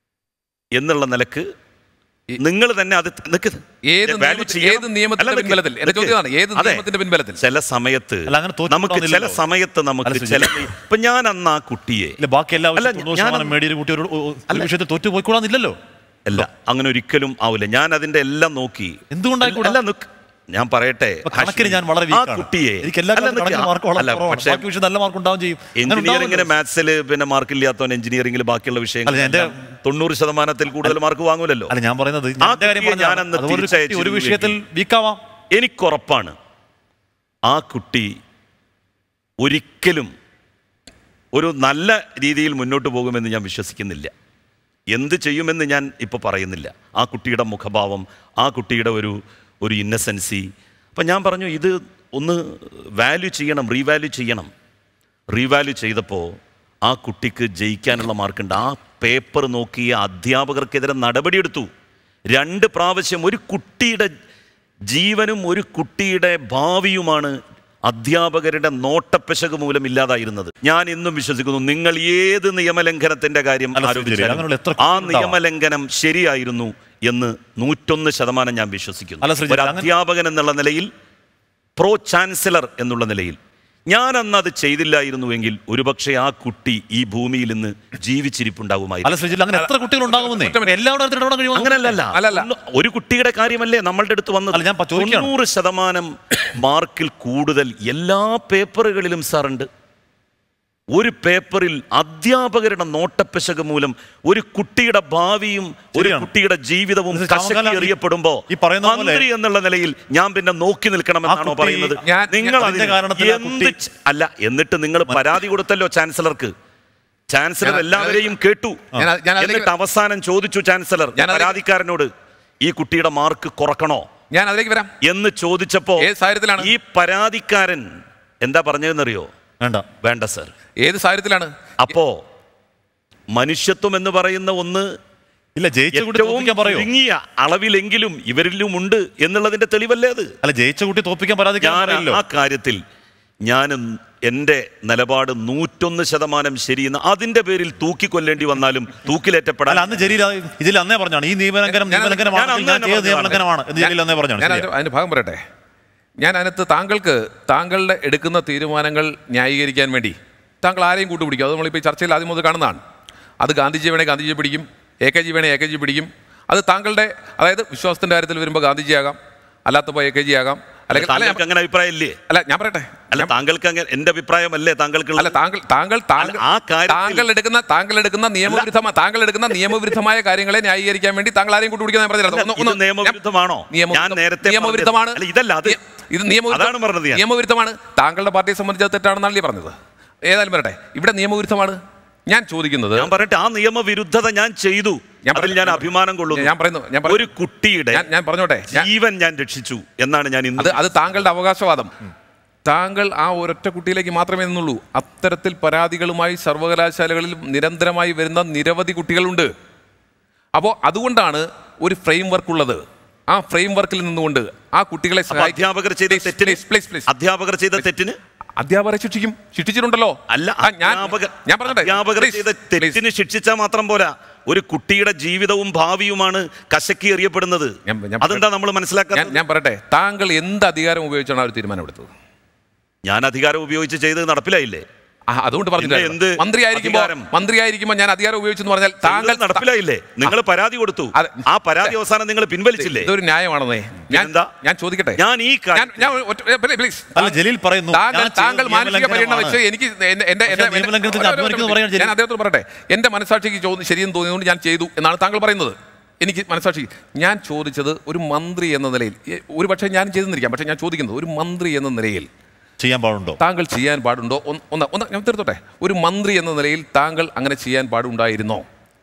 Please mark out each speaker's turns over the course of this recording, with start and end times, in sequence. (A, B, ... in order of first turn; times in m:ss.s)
0:00.7-0:01.5 A
0:02.4-0:06.8 A
0:03.9-0:07.4 B
0:07.4-0:12.2 A
0:08.3-0:09.4 C
0:10.0-0:10.7 C
0:12.2-0:15.8 C
0:12.8-0:13.5 A
0:16.2-0:24.6 A
0:19.1-0:19.8 C
0:21.2-0:26.5 C
0:25.8-0:31.7 A
0:29.0-0:29.6 C
0:31.7-0:35.2 C
0:32.4-0:34.6 A
0:35.5-0:36.3 A
0:37.5-0:38.1 A
0:39.4-0:40.1 A
0:41.3-0:44.1 A
0:44.9-0:54.5 A
0:55.3-1:01.7 A
1:02.3-1:04.1 A
1:04.9-1:07.3 A
1:07.9-1:20.9 A
1:13.7-1:15.4 C
1:19.2-1:19.9 C
1:21.8-1:23.4 A
1:23.9-1:29.3 A
1:29.0-1:32.0 C
1:29.5-1:30.7 B
1:31.5-1:39.7 A
1:32.1-1:32.5 B
1:34.5-1:35.3 C
1:41.0-1:56.5 A
1:46.0-1:46.3 C
1:47.1-1:47.9 C
1:48.5-1:49.2 C
1:51.2-1:53.7 C
1:52.0-1:52.6 B
1:57.3-2:02.1 A
1:57.6-1:58.3 B
1:59.0-1:59.7 B
2:01.2-2:01.6 B
2:02.6-2:04.0 A
2:04.3-2:04.9 B
2:05.0-2:06.1 A
2:06.0-2:06.7 B
2:06.6-2:07.9 A
2:08.4-2:09.3 A
2:09.6-2:09.8 C
2:10.0-2:10.5 A
2:10.8-2:11.5 B
2:11.8-2:12.2 A
2:13.3-2:14.9 A
2:15.6-2:16.9 C
2:15.9-2:20.3 A
2:20.4-2:22.2 C
2:21.6-2:22.8 A
2:23.4-2:30.0 A
2:29.7-2:34.7 C
2:31.7-2:32.4 B
2:32.3-2:33.4 A
2:33.8-2:35.4 B
2:36.2-2:42.8 B
2:43.4-2:51.4 B
2:50.9-2:52.2 A
2:52.3-2:53.3 B
2:53.1-2:55.3 A
2:55.2-3:03.2 B
2:56.2-2:57.3 A
3:02.3-3:05.8 A
3:03.7-3:09.7 B
3:06.5-3:07.2 A
3:10.3-3:13.1 B
3:13.0-3:16.5 A
3:15.2-3:17.2 B
3:17.1-3:18.0 A
3:17.9-3:18.9 B
3:18.7-3:20.8 A
3:20.6-3:21.9 B
3:22.7-3:29.5 B
3:30.6-3:37.1 B
3:35.3-3:38.2 A
3:38.6-3:43.0 B
3:40.3-3:49.4 A
3:47.9-3:48.4 B
3:49.1-3:52.1 B
3:53.0-3:54.8 A
3:55.3-3:59.6 B
3:55.8-3:57.3 A
3:59.0-4:03.1 A
4:01.1-4:01.9 B
4:02.8-4:05.2 B
4:04.1-4:04.5 A
4:05.2-4:06.1 A
4:05.8-4:07.4 B
4:07.2-4:09.6 C
4:07.9-4:22.3 B
4:10.5-4:12.1 C
4:22.8-4:23.4 C
4:23.4-4:28.6 B